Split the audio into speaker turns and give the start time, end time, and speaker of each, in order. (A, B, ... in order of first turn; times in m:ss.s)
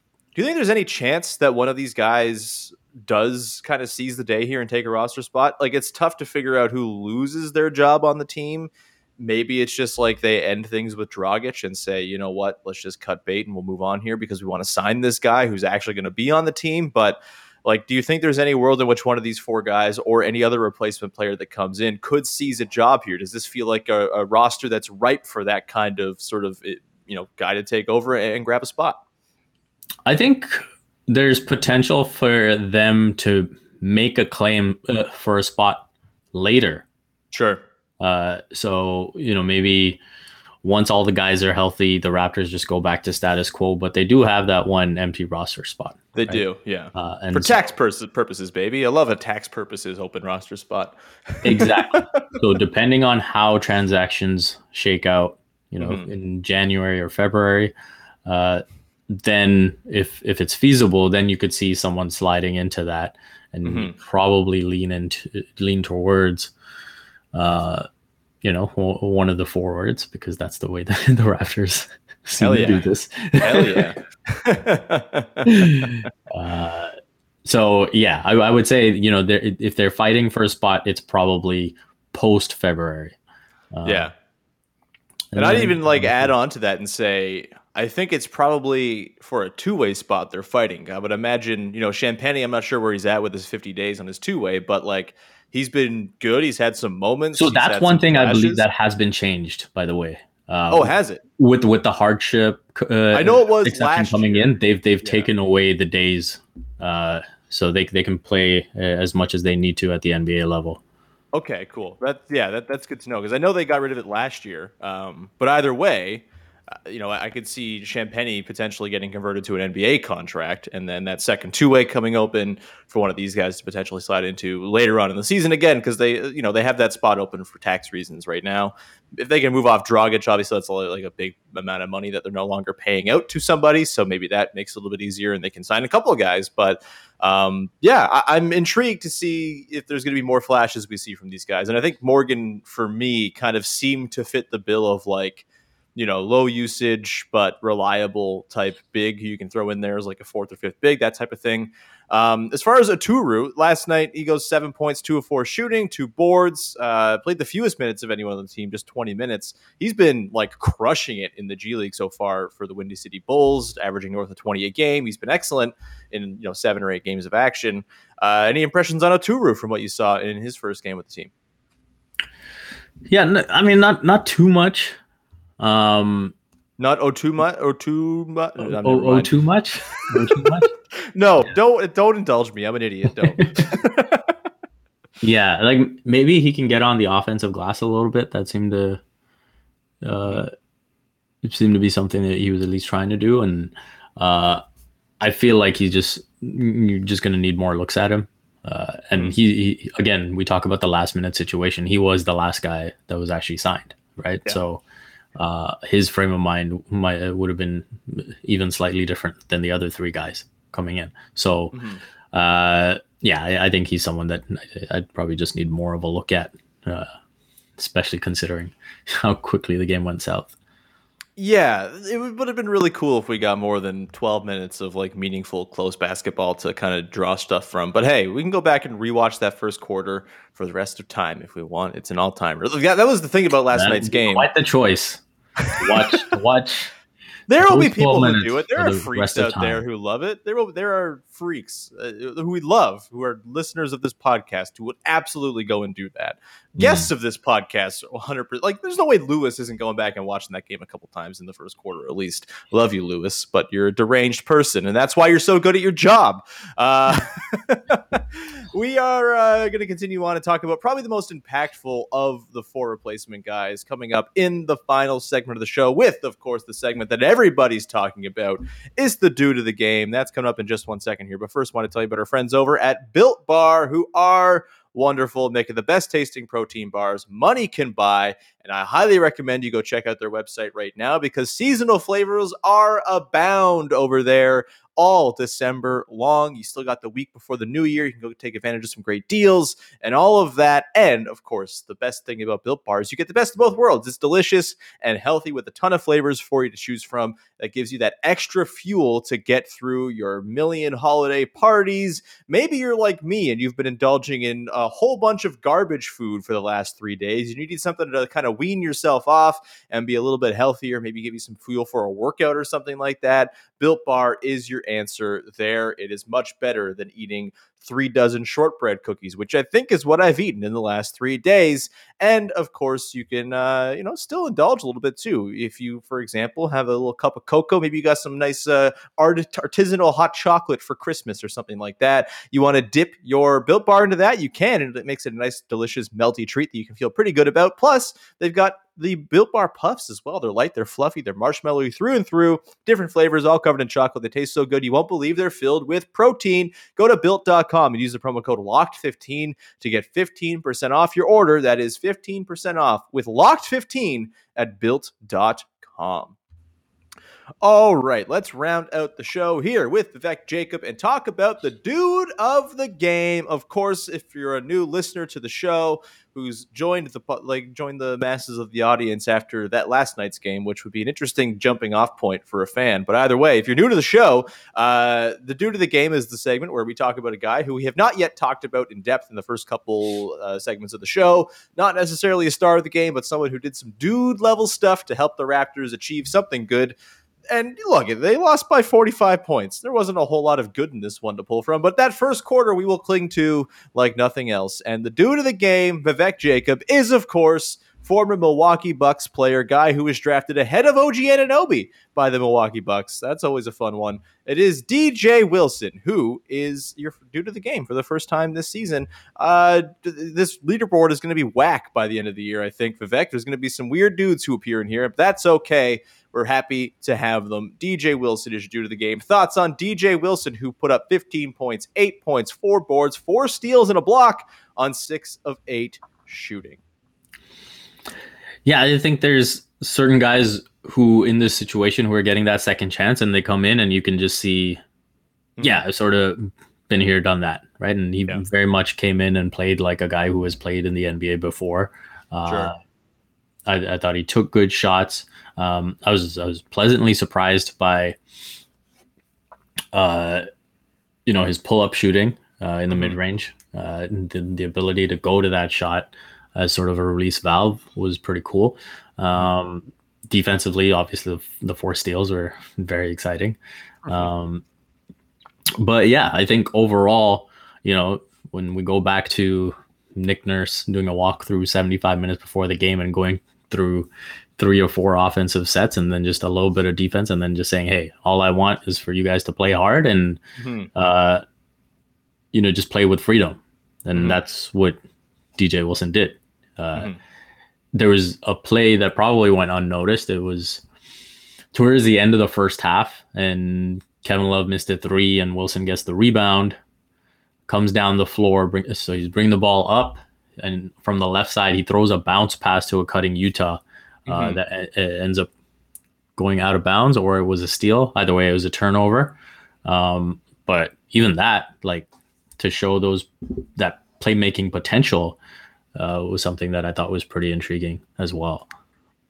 0:00.3-0:29.0 A
0:30.0-0:36.8 B
0:37.3-0:37.6 A
0:38.0-0:40.0 B
0:40.6-0:46.4 B
0:46.2-0:52.3 A
0:46.9-0:47.6 B
0:51.4-0:57.7 B
0:55.8-0:56.1 A
0:58.2-1:06.5 B
1:03.6-1:03.9 A
1:07.3-1:07.8 B
1:08.4-1:13.8 B
1:12.4-1:12.8 A
1:13.4-1:15.9 A
1:15.4-1:16.9 B
1:17.4-1:23.2 B
1:23.7-1:24.1 B
1:23.8-1:24.1 A
1:25.3-1:26.3 B
1:25.4-1:38.6 A
1:37.3-1:50.8 B
1:40.7-1:41.2 A
1:43.1-1:44.5 A
1:45.0-1:45.3 A
1:51.3-1:56.2 A
1:56.8-2:51.3 A
2:53.1-2:55.0 B
2:55.6-2:56.3 B
2:56.8-2:59.3 A
2:58.6-3:00.7 B
3:01.0-3:04.3 A
3:05.2-3:09.0 B
3:10.0-3:10.5 B
3:11.4-3:14.6 B
3:15.2-3:24.8 B
3:25.4-3:31.8 B
3:31.7-3:32.0 A
3:32.3-3:37.1 B
3:37.8-3:40.5 B
3:41.4-3:54.5 A
3:53.7-3:55.2 B
3:55.6-3:56.3 A
3:55.8-3:56.9 B
3:57.5-5:56.4 A
3:57.6-3:59.8 B
4:06.8-4:07.1 B
5:57.6-6:27.0 A
6:27.5-7:06.8 A
7:08.6-7:14.8 B
7:15.6-7:22.8 B
7:22.4-7:22.7 A
7:23.6-7:28.2 B
7:29.9-7:30.4 B
7:31.2-7:44.6 B
7:32.9-7:33.2 A
7:45.8-8:00.4 B
8:00.6-8:00.9 A
8:00.9-8:01.4 B
8:02.5-8:05.0 B
8:05.6-8:07.1 B
8:07.9-8:10.8 B
8:11.7-8:16.8 B
8:17.7-8:25.5 B
8:24.3-8:24.6 A
8:26.4-8:32.1 B
8:32.6-8:35.4 B
8:35.9-8:38.7 B